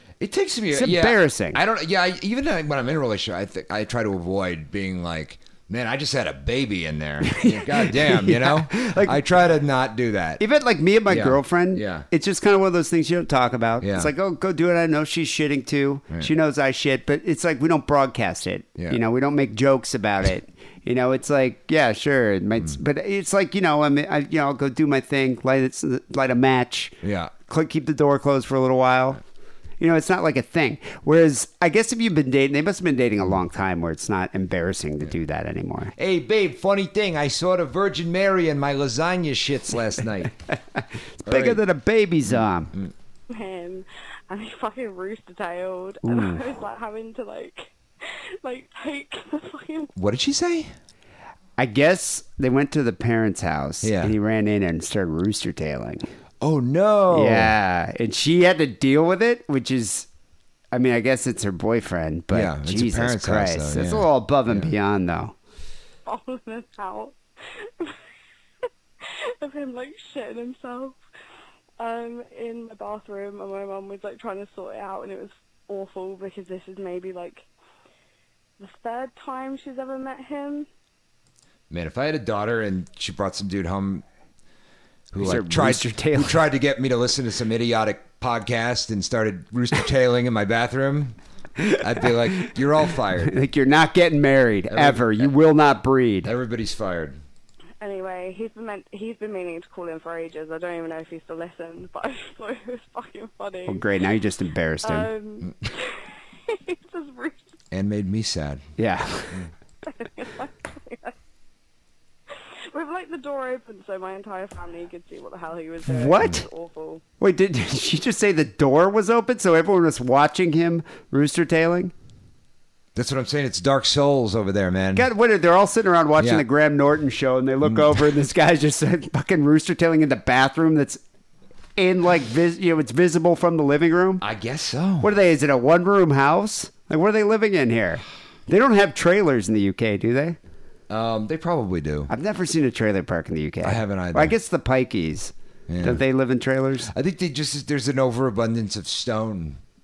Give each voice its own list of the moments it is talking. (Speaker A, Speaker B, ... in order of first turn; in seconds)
Speaker A: 0.2-10.4, 11.1-12.1, 13.8-14.1, 27.0-27.3, 36.0-40.4, 41.2-41.6, 42.3-42.9, 50.0-50.7, 53.8-54.1, 56.4-57.5, 62.3-64.7, 81.7-84.0, 85.1-91.2, 91.7-93.4, 94.7-95.3, 96.2-97.2, 107.7-108.7, 122.9-125.1, 126.2-126.4, 127.6-128.0, 134.2-135.1, 140.9-142.1, 143.6-144.3, 145.7-146.0, 146.9-149.6
Speaker B: 0.7-1.6, 7.2-9.2, 10.4-29.2, 29.8-35.9, 40.7-42.7, 46.0-46.4, 51.6-56.1, 57.1-60.1, 60.7-65.3, 85.2-86.4, 93.2-96.3, 103.7-105.1, 108.8-109.5, 115.8-116.5, 117.2-121.9, 124.9-131.0, 131.8-134.2, 135.0-140.4, 142.1-146.9
Speaker C: 43.3-49.9, 66.0-68.0, 69.0-71.0, 71.8-77.5, 78.6-80.7, 97.8-103.8, 104.8-107.5, 109.8-111.1, 112.7-117.0